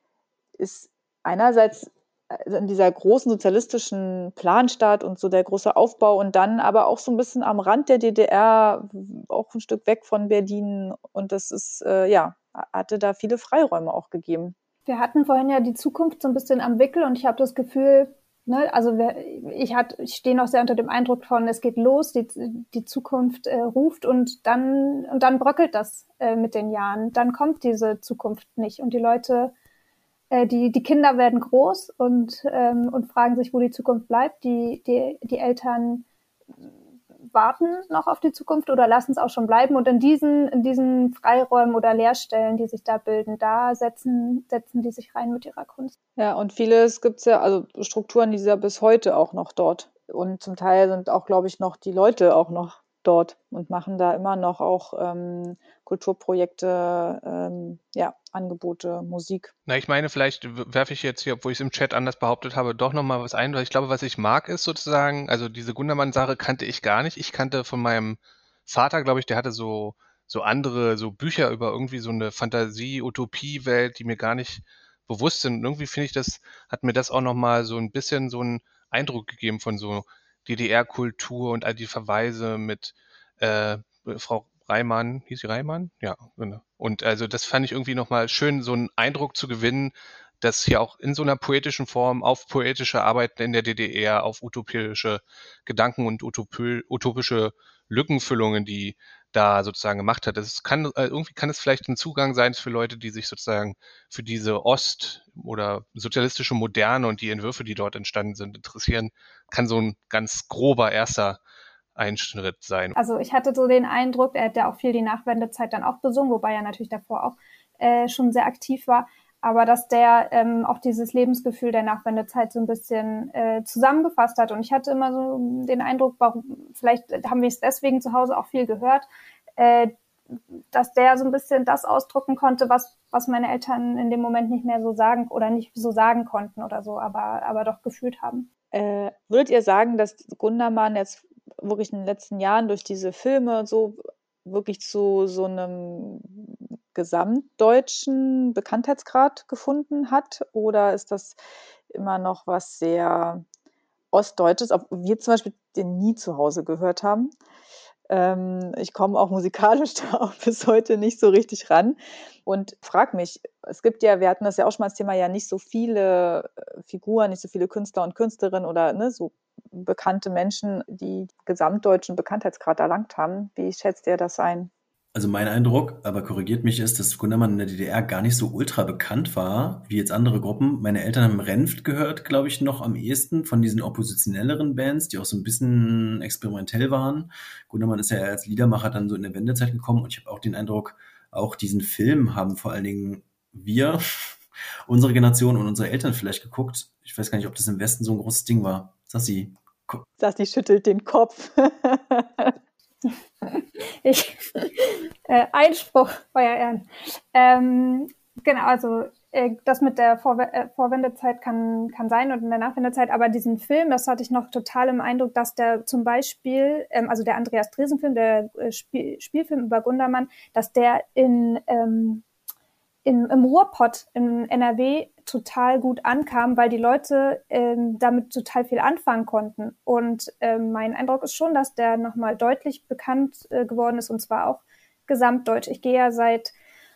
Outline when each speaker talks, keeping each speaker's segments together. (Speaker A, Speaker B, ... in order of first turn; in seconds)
Speaker A: 0.6-14.5, 46.2-59.5, 138.7-151.4, 151.9-153.4, 154.1-157.3, 158.1-174.7, 200.2-202.5
Speaker B: 14.9-29.5, 30.3-36.0, 37.3-45.9, 113.0-129.9, 130.7-138.5, 203.1-222.2, 223.0-236.5
Speaker C: 59.7-111.4, 112.0-113.0
Speaker D: 175.1-194.0, 194.9-200.0